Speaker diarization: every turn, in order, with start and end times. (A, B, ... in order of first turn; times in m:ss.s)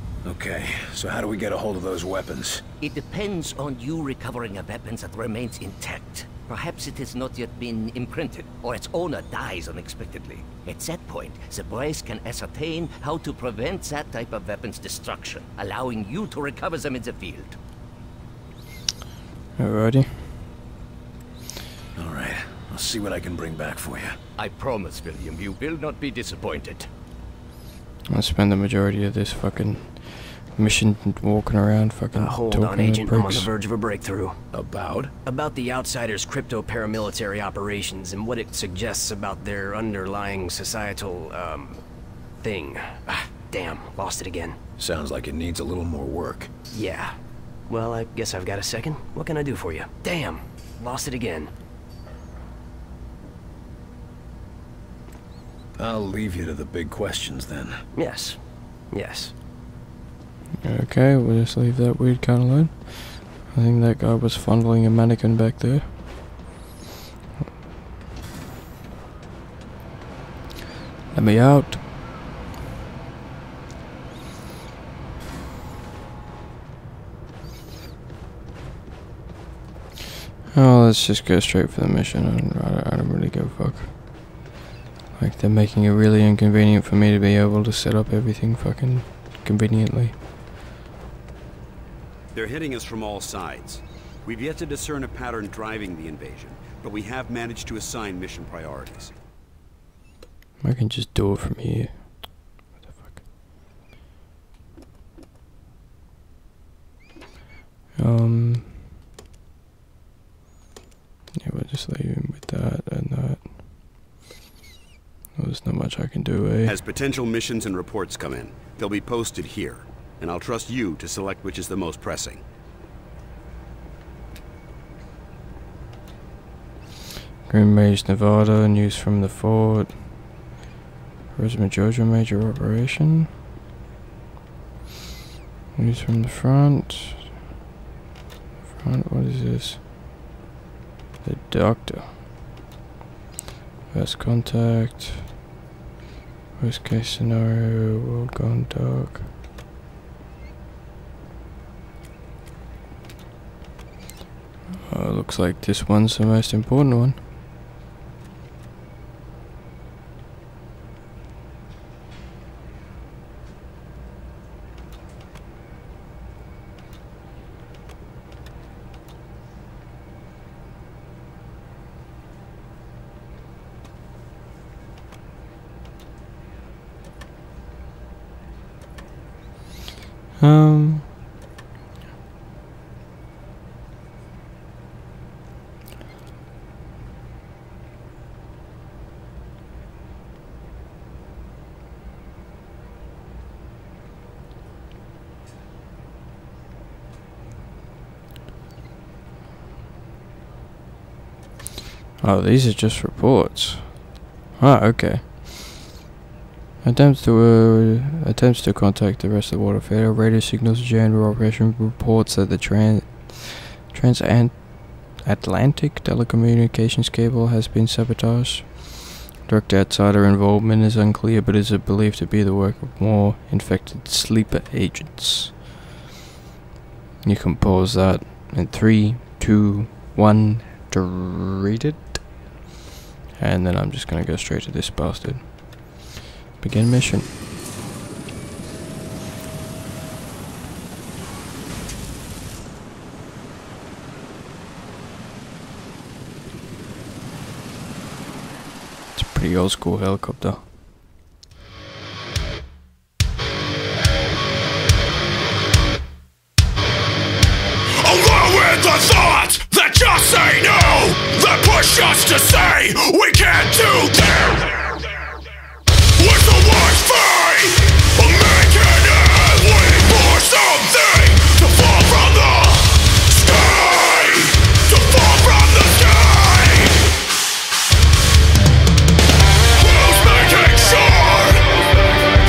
0:00.2-0:02.6 A
0:02.8-0:17.6 B
0:19.6-0:20.4 C
0:22.0-0:24.2 A
0:24.4-0:26.9 B
0:28.1-0:33.5 C
0:32.1-0:34.4 D
0:34.5-0:35.1 A
0:35.2-0:41.8 D
0:42.4-0:44.6 D
0:44.8-0:46.5 A
0:46.7-0:47.1 D
0:47.7-0:51.5 D
0:55.8-0:57.8 A
0:58.0-0:58.4 D
0:58.9-0:59.3 D
1:00.6-1:06.0 C
1:11.1-1:11.8 C
1:20.5-1:24.5 C
1:25.2-1:30.2 C
1:32.3-1:39.1 E
1:40.6-1:43.2 C
1:48.0-1:48.8 C
1:51.4-1:53.8 C
1:55.4-1:56.8 C
1:56.6-2:02.4 E
2:07.5-2:10.4 C
2:11.3-2:13.3 C
2:15.8-2:17.3 C
2:18.7-2:19.9 C
2:21.2-2:22.2 C
2:23.9-2:25.3 C
2:26.6-2:29.3 C
2:34.9-2:37.2 C
3:00.4-3:01.1 C
3:22.2-3:25.9 C
3:26.8-3:45.6 C
3:47.2-3:52.2 C
3:53.4-3:57.5 C
4:09.1-4:10.7 C
4:18.0-4:24.7 A
4:26.2-4:32.7 A
4:33.4-4:36.7 A
4:39.8-4:41.5 A